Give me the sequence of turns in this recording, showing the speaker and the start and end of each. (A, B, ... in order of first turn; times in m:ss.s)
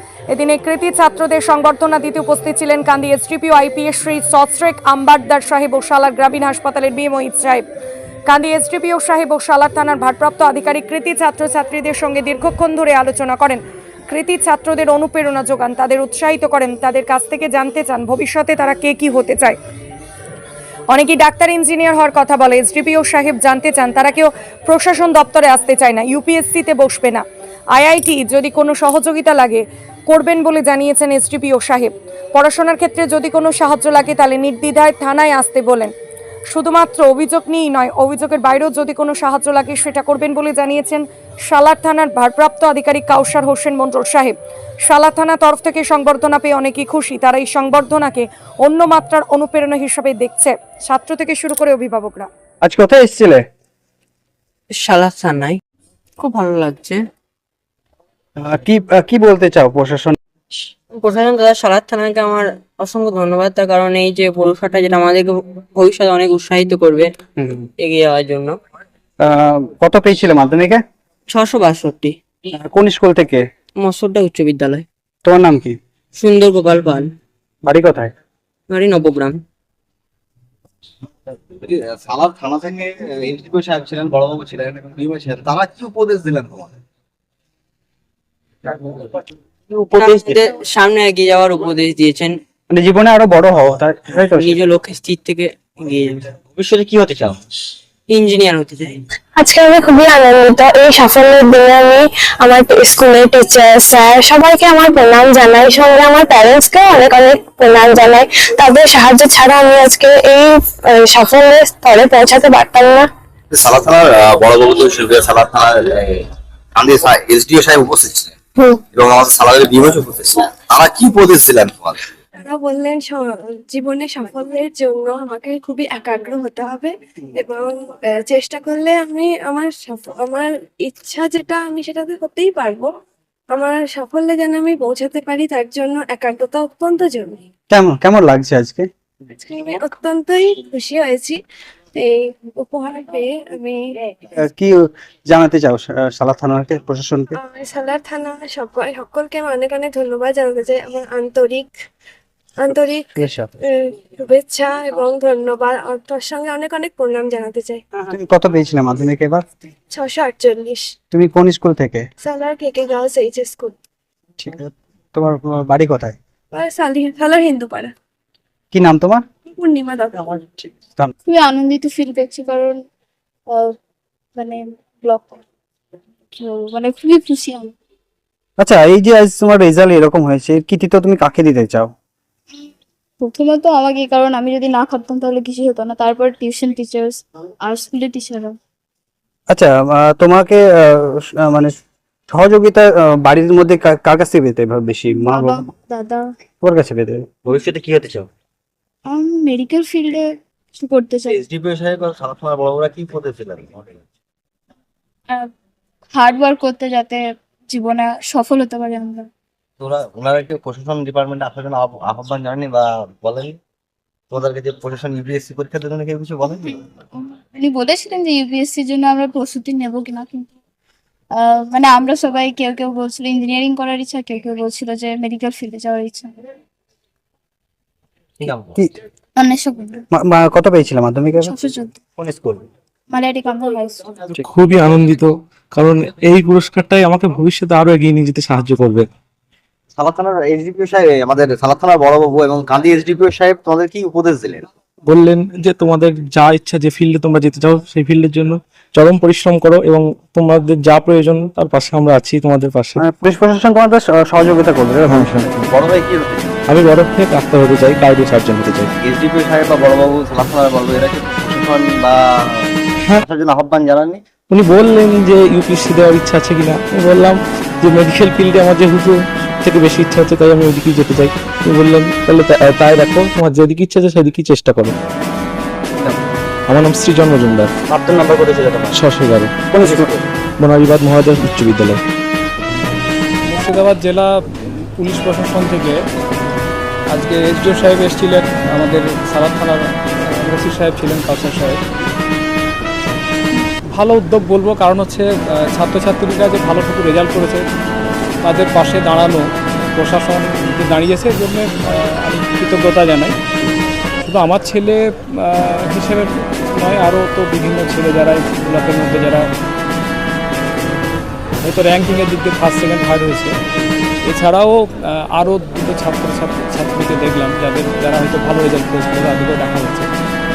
0:00.3-0:07.6 A
0:08.3-0:19.6 A
0:20.9-0:35.9 A
0:36.5-0:44.3 A
0:44.8-0:52.3 A
0:52.6-0:53.4 B
0:54.7-0:55.6 C
0:56.2-0:57.0 C
0:58.4-1:00.2 B
1:00.9-1:07.1 C
1:07.4-1:07.7 B
1:07.8-1:08.6 C
1:09.2-1:10.8 B
1:11.3-1:12.2 C
1:12.5-1:13.4 B
1:13.8-1:14.8 C
1:15.2-1:15.8 B
1:16.2-1:17.1 C
1:17.6-1:18.1 B
1:18.7-1:19.4 C
1:21.3-1:26.7 D
1:29.7-1:30.4 D
1:29.9-1:32.4 C
1:32.7-1:34.5 B
1:34.3-1:36.2 C
1:36.5-1:37.4 D
1:38.1-1:39.0 C
1:39.4-1:53.1 E
1:53.5-1:56.2 D
1:56.8-1:58.3 D
1:58.6-1:58.8 E
1:58.9-2:02.0 D
2:02.4-2:12.9 F
2:13.5-2:17.5 F
2:17.7-2:18.9 B
2:19.4-2:21.4 F
2:21.9-2:24.2 F
2:24.3-2:27.4 B
2:27.3-2:31.7 F
2:32.6-2:33.1 F
2:33.2-2:33.5 B
2:33.6-2:37.8 F
2:38.0-2:39.4 B
2:39.9-2:40.9 F
2:41.1-2:42.0 B
2:42.2-2:43.8 F
2:44.4-2:46.2 B
2:46.5-2:47.9 F
2:48.7-2:49.2 B
2:49.6-2:50.7 F
2:51.2-2:52.8 G
2:54.4-2:55.4 G
2:56.4-2:57.7 G
2:58.6-3:01.9 B
3:03.2-3:08.5 G
3:09.5-3:11.7 B
3:12.3-3:15.7 B
3:15.2-3:16.2 G
3:16.6-3:17.2 B
3:17.4-3:18.3 D
3:19.1-3:21.4 G
3:21.3-3:24.0 D
3:26.1-3:29.3 G
3:29.8-3:33.6 D
3:34.3-3:36.8 D
3:37.4-3:40.5 G
3:41.4-3:46.3 G
3:48.4-3:48.7 D
3:49.4-3:50.0 G
3:50.1-3:51.5 B
3:51.4-3:52.0 G
3:52.2-3:52.6 D
3:53.1-3:54.2 G
3:54.4-3:59.1 H
4:00.0-4:04.6 D
4:05.0-4:13.0 H
4:13.0-4:15.3 B
4:15.1-4:15.5 H
4:15.2-4:16.6 D
4:16.7-4:18.9 H
4:18.8-4:24.2 D
4:24.5-4:34.9 H
4:36.7-4:37.7 H
4:38.9-4:39.9 H
4:39.7-4:40.1 B
4:40.6-4:42.0 H
4:43.5-4:46.0 I
4:47.1-4:51.8 I
4:53.9-4:57.6 I
4:58.4-5:03.4 I
5:04.2-5:09.4 I
5:11.6-5:13.5 I
5:14.2-5:20.1 I